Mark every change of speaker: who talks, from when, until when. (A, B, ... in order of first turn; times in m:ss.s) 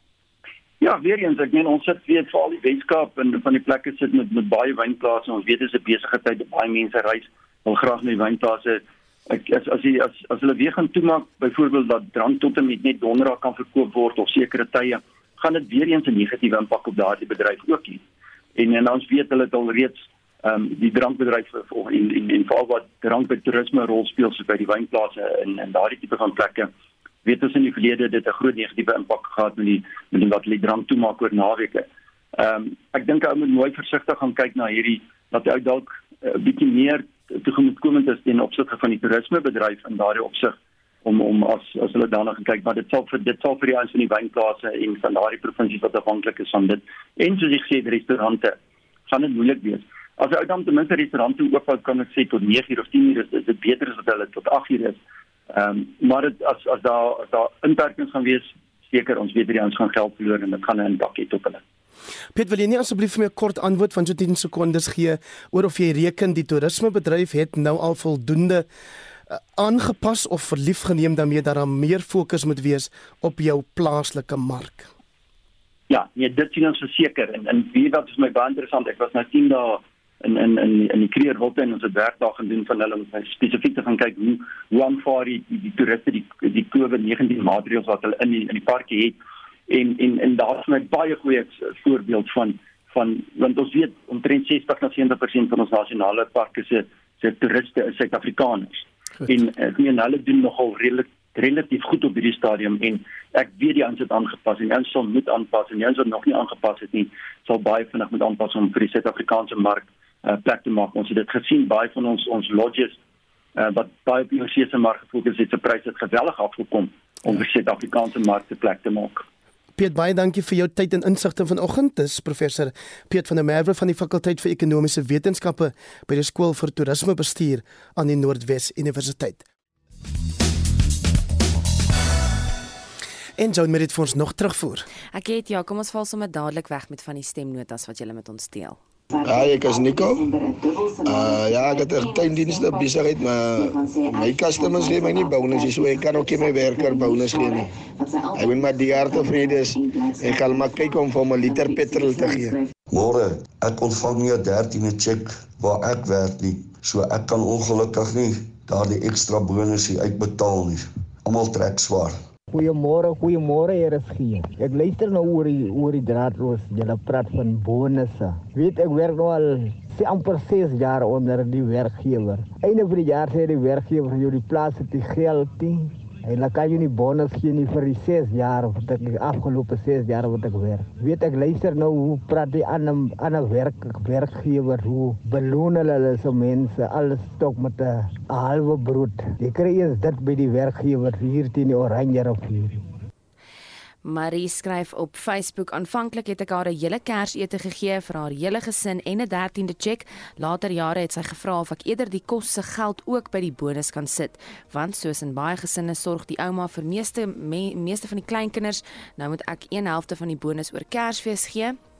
0:00.8-0:18.0 A
0:18.6-0:26.7 A
0:27.2-0:48.6 A
0:49.1-1:01.6 A
1:02.3-1:08.7 B
1:09.3-1:14.9 B
1:15.9-1:29.2 A
1:29.7-1:53.0 A
1:53.6-1:59.2 A
1:59.8-2:09.4 B
2:13.4-2:14.9 B
2:15.1-2:18.8 C
2:19.2-2:20.3 D
2:21.0-2:27.8 D
2:28.3-2:32.6 D
2:32.9-2:42.2 E
2:42.5-3:12.9 F
3:14.0-3:31.8 C